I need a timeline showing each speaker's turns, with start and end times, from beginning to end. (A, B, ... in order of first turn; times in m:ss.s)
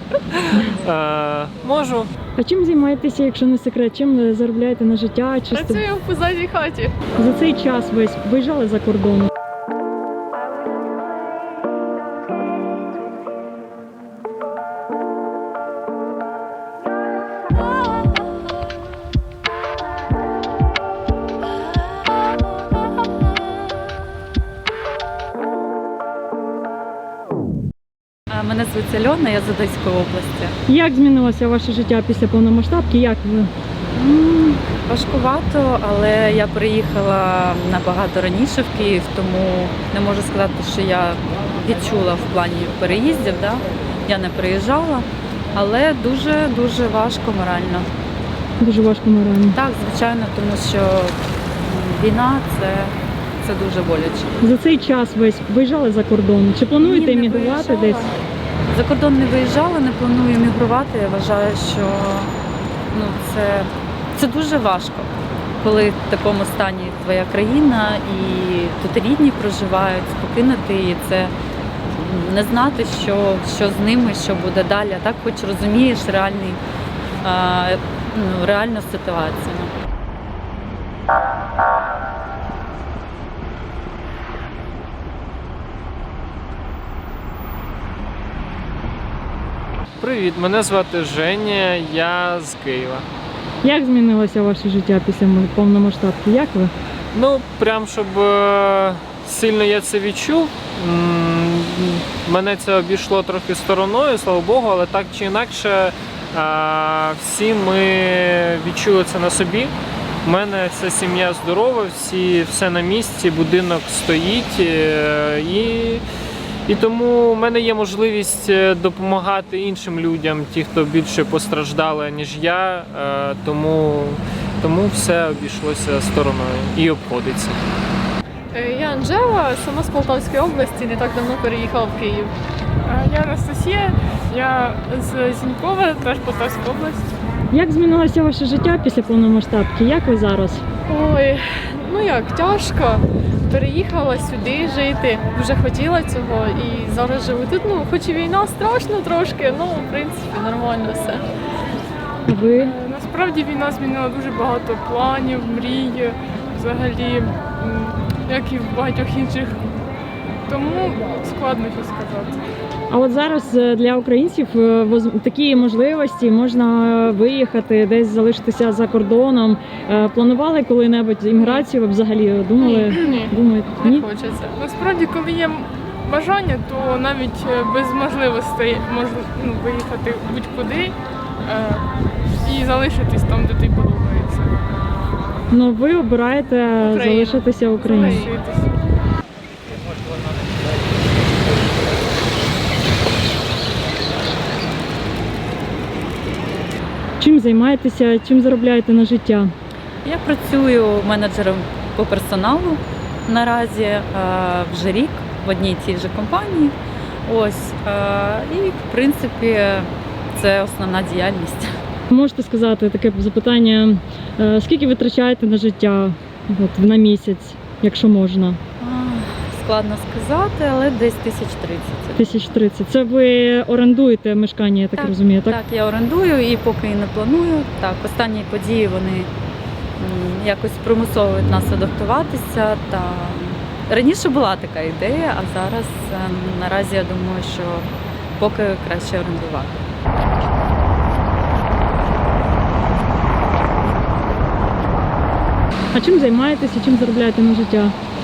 0:00.4-0:02.1 A
0:02.4-0:05.8 B
0:05.5-0:07.0 C
0:07.2-0:09.3 B
0:28.3-0:30.6 D
0:30.7-0:33.5 B
0:34.0-0:47.9 D
0:48.6-0:49.6 B
0:49.5-0:54.3 D
0:54.4-0:58.0 B
0:56.8-0:58.1 C
0:58.7-1:02.3 D
1:02.9-1:05.1 D
1:05.6-1:11.3 D
1:11.9-1:16.6 D
1:17.2-1:19.7 D
1:30.0-1:33.1 A
1:33.6-1:36.7 B
1:37.1-1:49.7 A
1:50.2-1:56.0 A
1:56.7-2:07.6 A
2:08.5-2:12.3 C
2:12.8-2:17.1 E
2:17.5-2:20.6 B
2:20.9-2:31.2 C
2:32.3-2:32.7 B
2:32.6-2:39.8 E
2:40.5-2:42.4 E
2:42.9-2:54.0 B
2:52.6-2:54.6 C
2:54.6-3:01.9 E
3:02.4-3:04.6 E
3:05.5-3:08.3 B
3:06.8-3:07.4 C
3:07.4-3:08.7 E
3:17.2-3:19.5 B
3:20.0-3:26.8 D
3:27.3-3:31.7 D
3:32.1-3:38.6 B
3:38.8-3:42.4 D
3:42.2-3:45.6 B
3:45.0-3:49.3 D
3:50.0-3:57.9 D
3:58.4-3:59.8 D
4:05.9-4:07.9 B